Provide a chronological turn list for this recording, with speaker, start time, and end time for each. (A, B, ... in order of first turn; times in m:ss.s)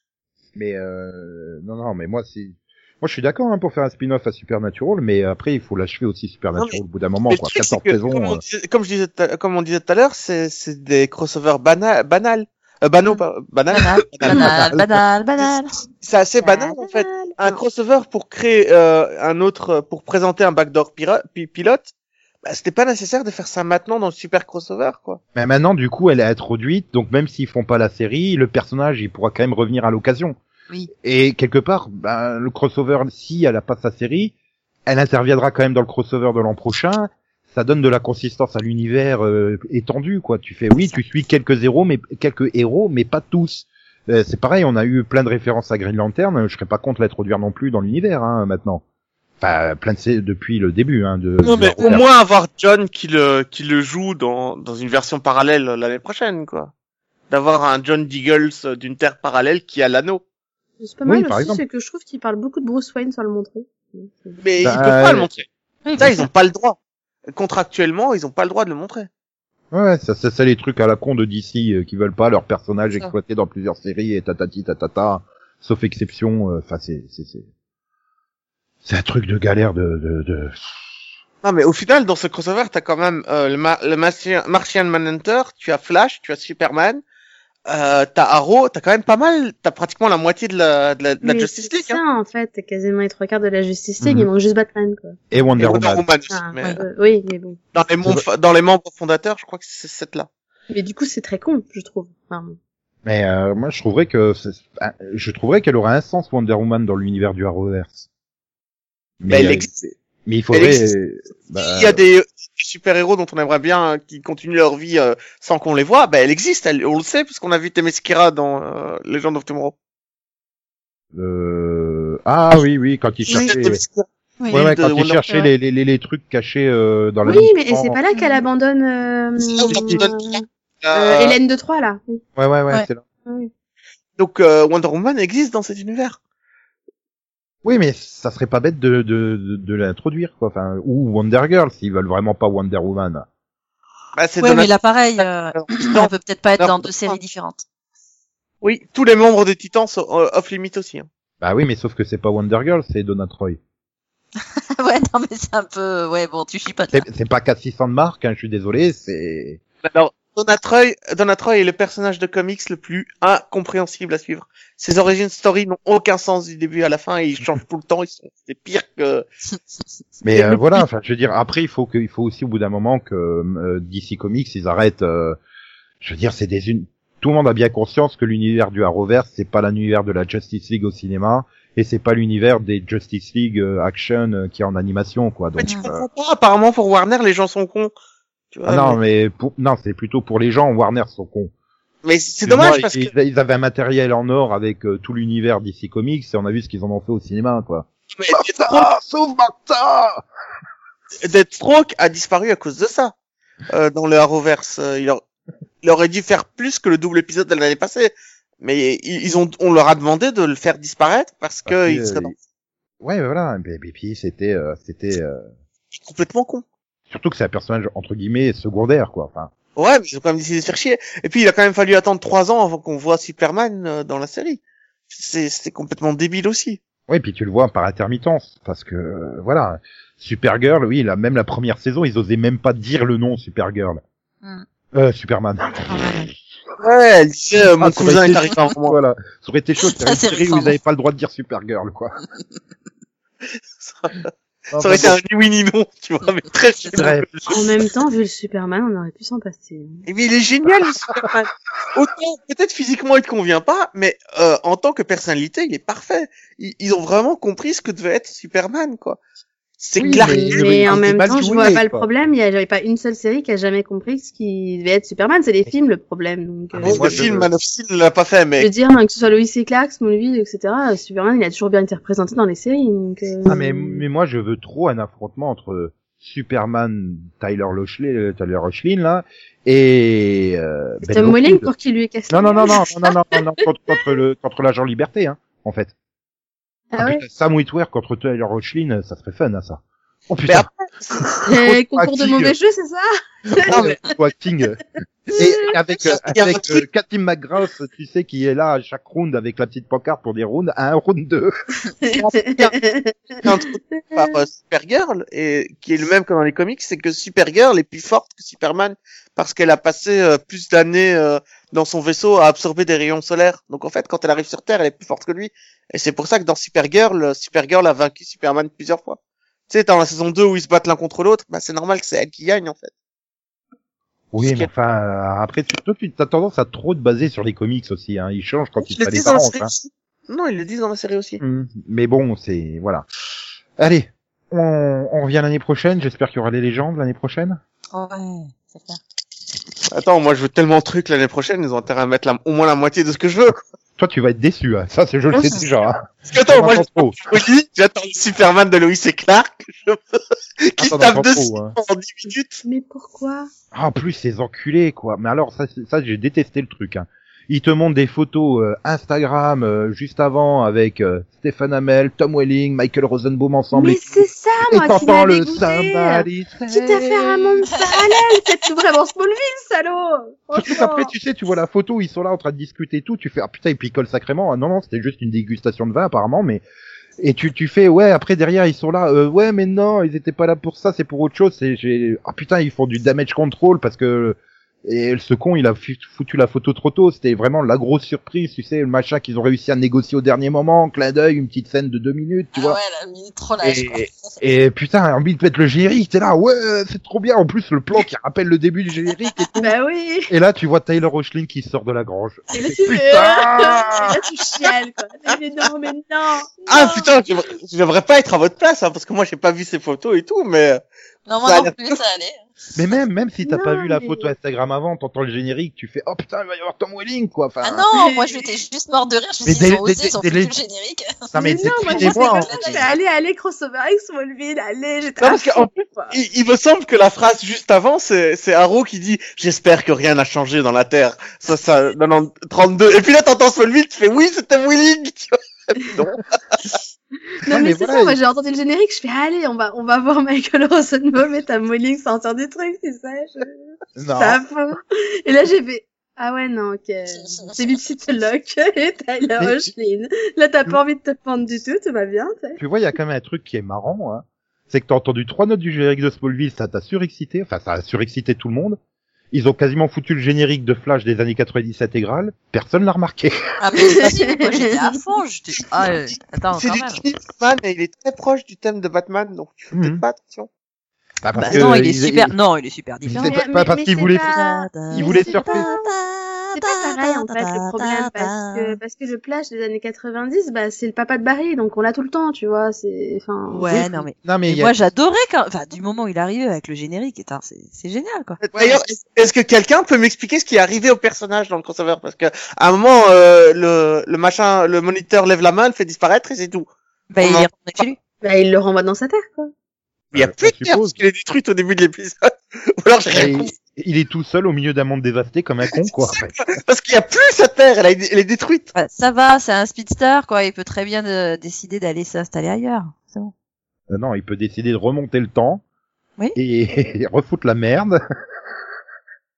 0:00.5-0:08.4 A
0:07.3-0:14.5 B
0:13.7-0:15.7 C
0:14.3-0:15.0 A
0:16.0-0:21.9 B
0:16.4-0:17.5 D
0:22.4-0:25.2 B
0:25.3-0:30.4 A
0:31.0-0:34.3 A
0:34.8-0:48.8 A
0:49.4-0:52.1 A
0:51.4-0:56.7 B
0:57.3-1:00.2 B
1:00.8-1:04.4 D
1:01.0-1:01.6 A
1:04.4-1:05.4 B
1:04.6-1:05.3 A
1:05.8-1:06.2 C
1:06.0-1:06.8 B
1:07.3-1:09.1 B
1:09.7-1:17.5 A
1:18.8-1:20.6 A
1:21.4-1:27.0 B
1:27.7-1:32.0 B
1:31.2-1:37.6 D
1:34.0-1:34.3 A
1:35.3-1:36.0 A
1:35.6-1:36.7 B
1:37.7-1:40.3 B
1:40.7-1:42.6 D
1:43.0-1:48.1 A
1:49.2-1:52.0 A
1:49.3-1:49.7 B
1:50.5-1:50.8 B
1:51.5-1:59.7 B
2:01.1-2:03.8 A
2:03.3-2:05.2 B
2:04.5-2:08.0 A
2:07.2-2:10.4 D
2:09.4-2:11.4 B
2:09.7-2:10.1 A
2:10.9-2:12.2 D
2:12.4-2:13.0 A
2:14.2-2:16.2 B
2:17.6-2:23.2 A
2:24.2-2:27.2 B
2:24.4-2:27.6 C
2:28.6-2:31.1 B
2:31.4-2:33.6 A
2:34.8-2:37.0 C
2:36.9-2:39.6 A
2:39.8-2:49.2 B
2:50.2-2:55.4 A
2:56.0-3:06.0 A
3:05.6-3:07.9 B
3:08.5-3:09.0 B
3:08.6-3:11.5 A
3:12.0-3:13.1 B
3:12.4-3:20.2 A
3:18.1-3:18.9 B
3:21.2-3:23.1 B
3:23.7-3:25.2 B
3:25.8-3:32.4 B
3:31.6-3:32.3 A
3:33.0-3:35.5 A
3:35.9-3:36.6 B
3:37.1-3:39.5 A
3:39.8-3:46.8 B
3:47.1-3:54.0 A
3:54.9-3:56.2 A
3:55.9-3:56.3 C
3:56.8-3:59.0 B
3:57.8-4:02.1 A
3:59.9-4:00.8 C
4:03.8-4:07.6 B
4:04.7-4:05.2 A
4:06.9-4:07.3 A
4:07.5-4:10.0 D
4:10.0-4:19.2 B
4:19.8-4:21.8 B
4:20.0-4:27.3 D
4:20.0-4:22.1 A
4:26.7-4:27.5 A
4:26.8-4:28.7 B
4:28.6-4:34.0 D
4:33.4-4:41.7 A
4:41.1-4:43.4 D
4:42.3-4:45.9 A
4:46.9-4:47.2 D
4:47.0-4:52.5 A
4:50.4-4:51.2 B
4:51.5-4:53.7 D
4:53.5-4:54.8 A
4:53.7-4:54.0 B
4:55.3-5:01.5 A
4:56.0-4:56.8 B
5:02.0-5:04.4 D
5:02.1-5:02.8 B
5:03.4-5:19.2 B
5:19.7-5:22.9 B
5:24.3-5:29.7 A
5:24.4-5:24.7 B
5:28.8-5:31.4 B
5:31.4-5:33.0 A
5:33.8-5:37.6 A
5:37.9-5:39.0 C
5:39.9-5:43.6 B
5:44.0-5:47.2 A
5:46.3-5:50.0 B
5:50.6-5:52.6 B
5:50.8-5:51.8 A
5:52.6-5:53.5 D
5:53.7-6:07.5 A
6:03.7-6:11.1 D
6:07.9-6:08.2 C
6:10.5-6:16.6 A
6:17.2-6:32.8 A
6:32.5-6:34.4 C
6:33.6-6:39.7 A
6:39.2-6:39.5 C
6:39.6-6:40.3 D
6:40.3-6:44.2 A
6:42.5-6:47.1 D
6:46.7-6:50.8 B
6:51.3-6:52.4 C
6:51.4-6:52.0 B
6:52.7-6:57.8 A
6:53.4-6:54.3 D
6:57.6-7:03.0 C
6:57.9-6:58.4 D
6:59.4-7:00.5 A
7:01.3-7:02.8 A
7:01.3-7:06.1 D
7:05.2-7:16.6 B
7:17.4-7:32.6 D
7:17.5-7:18.2 A
7:24.0-7:24.4 A
7:29.4-7:29.7 A
7:32.6-7:38.8 A
7:39.3-7:43.3 A
7:43.6-7:47.0 C
7:43.8-7:44.9 D
7:46.6-7:50.5 B
7:49.7-7:50.0 A
7:51.2-7:52.3 A
7:51.3-7:53.4 C
7:53.0-7:55.7 A
7:53.2-7:55.9 D
7:54.2-7:58.8 C
7:56.5-8:04.0 D
8:03.5-8:08.6 C
8:04.2-8:04.7 A
8:08.5-8:16.7 B
8:17.1-8:18.0 C
8:17.2-8:17.5 B
8:18.2-8:19.5 D
8:20.1-8:21.0 A
8:20.1-8:23.5 B
8:23.1-8:26.4 A
8:26.1-8:28.7 B
8:28.7-8:33.3 C
8:33.9-8:35.6 A
8:36.3-8:38.0 A